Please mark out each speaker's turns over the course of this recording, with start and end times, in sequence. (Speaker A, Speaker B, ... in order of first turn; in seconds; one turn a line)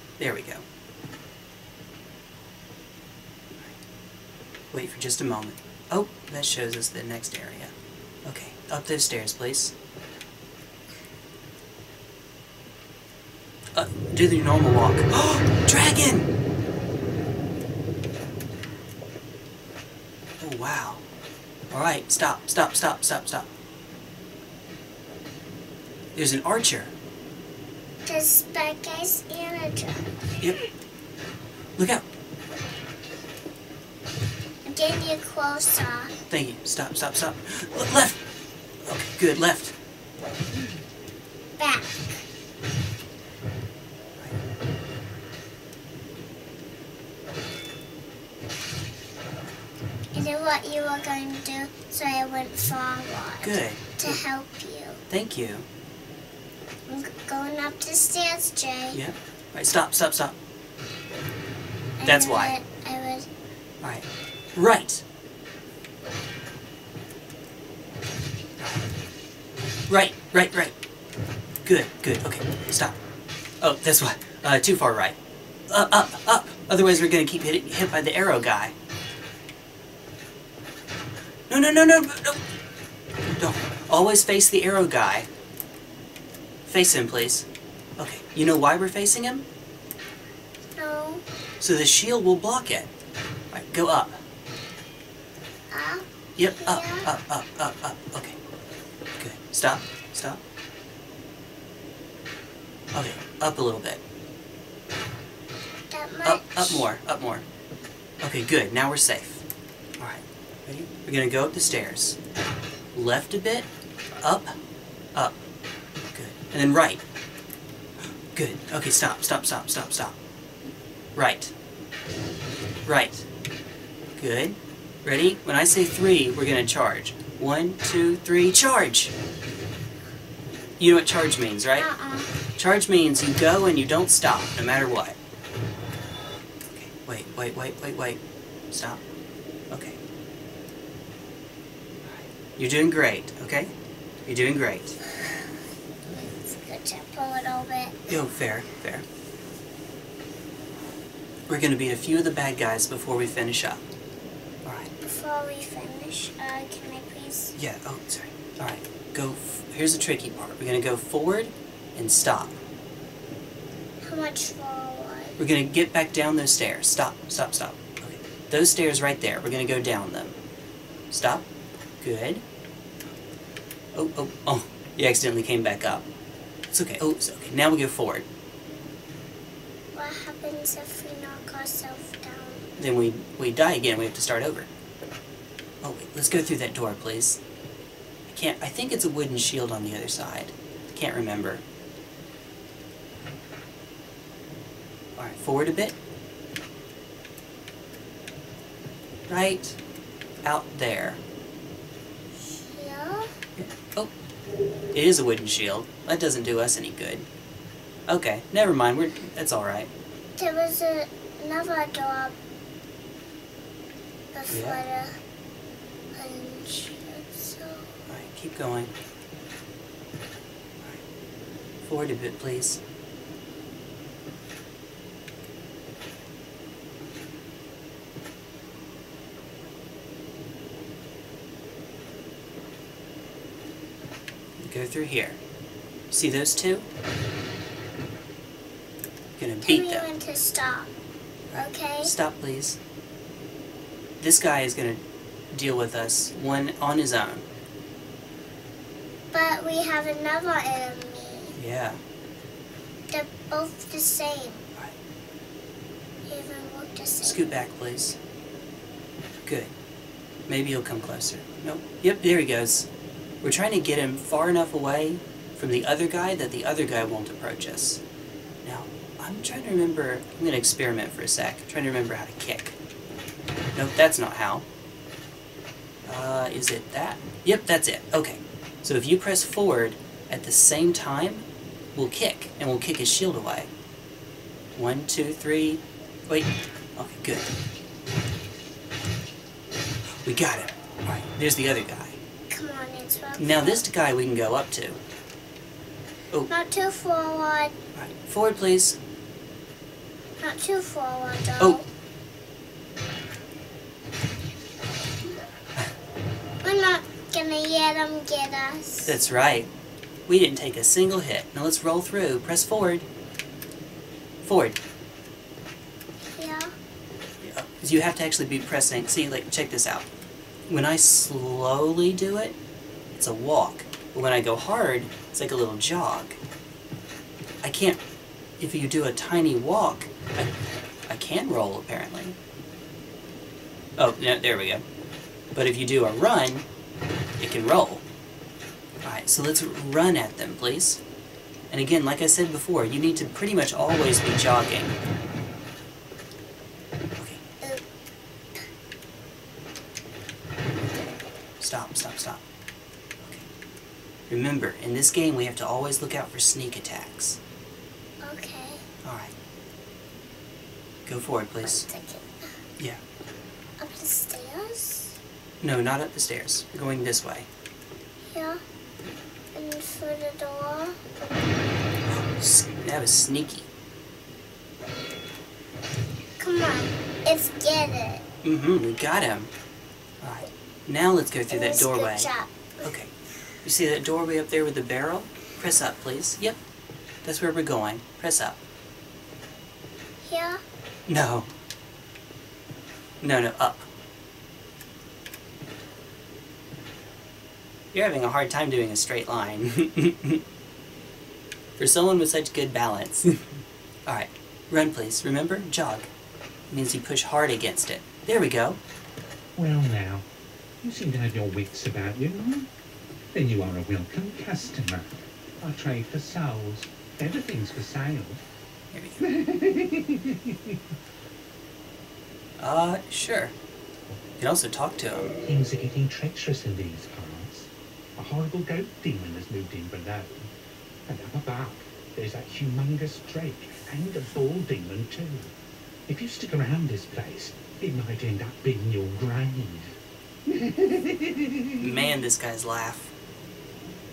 Speaker A: 0.2-0.6
Speaker A: 4.7-7.7
Speaker A: 8.2-9.7
Speaker A: 13.7-16.3
Speaker A: 20.4-21.0
Speaker A: 21.7-23.5
Speaker A: 26.1-26.9
Speaker B: 28.1-30.1
Speaker A: 31.8-32.0
Speaker B: 34.6-36.1
Speaker A: 36.3-38.2
Speaker A: 38.8-39.8
Speaker B: 41.6-42.2
Speaker B: 50.1-55.0
Speaker A: 53.4-54.2
Speaker A: 55.1-55.7
Speaker B: 56.9-59.0
Speaker A: 58.9-60.4
Speaker B: 62.0-63.3
Speaker A: 62.0-62.5
Speaker A: 63.8-65.0
Speaker A: 68.6-68.8
Speaker A: 69.9-70.8
Speaker A: 71.6-73.0
Speaker A: 73.6-75.2
Speaker A: 75.7-78.8
Speaker A: 81.5-82.4
Speaker A: 83.2-85.3
Speaker A: 86.7-89.5
Speaker B: 90.8-91.2
Speaker A: 91.6-92.9
Speaker A: 93.5-94.2
Speaker B: 95.7-96.1
Speaker A: 96.4-98.4
Speaker B: 96.6-97.1
Speaker A: 99.2-100.4
Speaker A: 102.9-104.0
Speaker B: 105.9-106.9
Speaker A: 106.2-107.5
Speaker A: 108.2-109.4
Speaker A: 110.0-112.2
Speaker A: 112.9-113.7
Speaker A: 114.2-114.5
Speaker A: 116.1-117.0
Speaker A: 118.3-120.2
Speaker A: 121.2-121.5
Speaker A: 122.8-123.3
Speaker A: 124.2-129.1
Speaker A: 130.8-131.9
Speaker B: 131.8-132.3
Speaker A: 132.6-135.2
Speaker A: 136.7-139.0
Speaker A: 139.7-140.0
Speaker A: 142.0-143.7
Speaker A: 144.2-145.0
Speaker B: 146.1-148.0
Speaker A: 148.1-149.1
Speaker A: 151.5-153.8
Speaker A: 154.7-154.9
Speaker B: 155.0-157.6
Speaker A: 157.6-162.6
Speaker B: 164.0-165.4
Speaker A: 165.4-170.4
Speaker A: 171.1-171.5
Speaker A: 172.0-172.4
Speaker A: 173.9-176.1
Speaker A: 176.7-178.3
Speaker B: 179.9-182.7
Speaker A: 182.8-184.7
Speaker A: 185.8-187.4
Speaker A: 188.3-191.6
Speaker A: 195.2-196.0
Speaker A: 199.3-199.8
Speaker A: 200.4-201.2
Speaker B: 202.4-203.3
Speaker A: 203.6-204.1
Speaker A: 204.9-207.3
Speaker A: 208.1-209.9
Speaker B: 210.4-212.4
Speaker B: 214.3-215.2
Speaker A: 214.5-214.8
Speaker B: 216.1-217.9
Speaker A: 218.1-218.9
Speaker A: 221.8-222.8
Speaker A: 234.6-235.4
Speaker A: 236.1-236.9
Speaker A: 239.4-240.1
Speaker B: 239.7-240.9
Speaker A: 241.5-242.8
Speaker B: 241.5-242.1
Speaker A: 244.2-247.5
Speaker B: 249.3-251.6
Speaker A: 251.6-252.0
Speaker B: 253.1-254.7
Speaker B: 256.3-257.4
Speaker A: 257.2-258.2
Speaker A: 259.4-259.7
Speaker A: 260.5-262.9
Speaker A: 263.4-268.0
Speaker A: 268.6-272.8
Speaker A: 273.8-274.7
Speaker A: 276.1-283.7
Speaker A: 284.8-287.5
Speaker A: 290.2-292.2
Speaker B: 292.5-293.8
Speaker A: 293.4-295.0
Speaker B: 296.5-297.8
Speaker A: 297.9-299.0
Speaker B: 300.4-301.9
Speaker B: 306.6-309.2
Speaker A: 309.1-309.7
Speaker A: 310.3-313.1
Speaker A: 314.4-314.8
Speaker B: 316.3-316.7
Speaker A: 317.4-320.1
Speaker A: 320.7-322.6
Speaker A: 323.1-326.4
Speaker A: 327.6-328.0
Speaker A: 328.6-330.5
Speaker A: 331.1-332.4
Speaker A: 334.0-334.8
Speaker A: 335.5-336.6
Speaker A: 337.4-338.0
Speaker A: 339.0-341.0
Speaker A: 341.7-345.0
Speaker A: 347.2-347.4
Speaker A: 351.6-352.4
Speaker A: 353.2-353.5
Speaker A: 354.3-357.4
Speaker B: 358.2-358.9
Speaker A: 359.0-359.3
Speaker A: 361.1-361.9
Speaker B: 361.6-362.5
Speaker B: 363.8-365.2
Speaker A: 365.6-367.5
Speaker B: 368.3-368.6
Speaker B: 369.5-371.0
Speaker A: 372.1-373.7
Speaker B: 376.4-378.2
Speaker A: 378.4-379.5
Speaker A: 380.2-383.1
Speaker B: 381.5-382.7
Speaker A: 383.6-386.6
Speaker A: 387.2-388.6
Speaker B: 390.2-390.6
Speaker A: 391.1-391.5
Speaker A: 393.2-393.9
Speaker A: 397.9-400.4
Speaker A: 401.8-403.4
Speaker A: 404.1-406.1
Speaker A: 406.7-408.8
Speaker C: 409.6-410.3
Speaker C: 410.8-412.7
Speaker C: 413.3-418.4
Speaker A: 418.9-419.2
Speaker C: 419.2-420.8
Speaker A: 422.6-423.6
Speaker A: 424.4-425.4
Speaker C: 425.4-430.4
Speaker C: 431.1-435.5
Speaker C: 436.1-439.9
Speaker C: 440.5-442.1
Speaker A: 441.8-443.1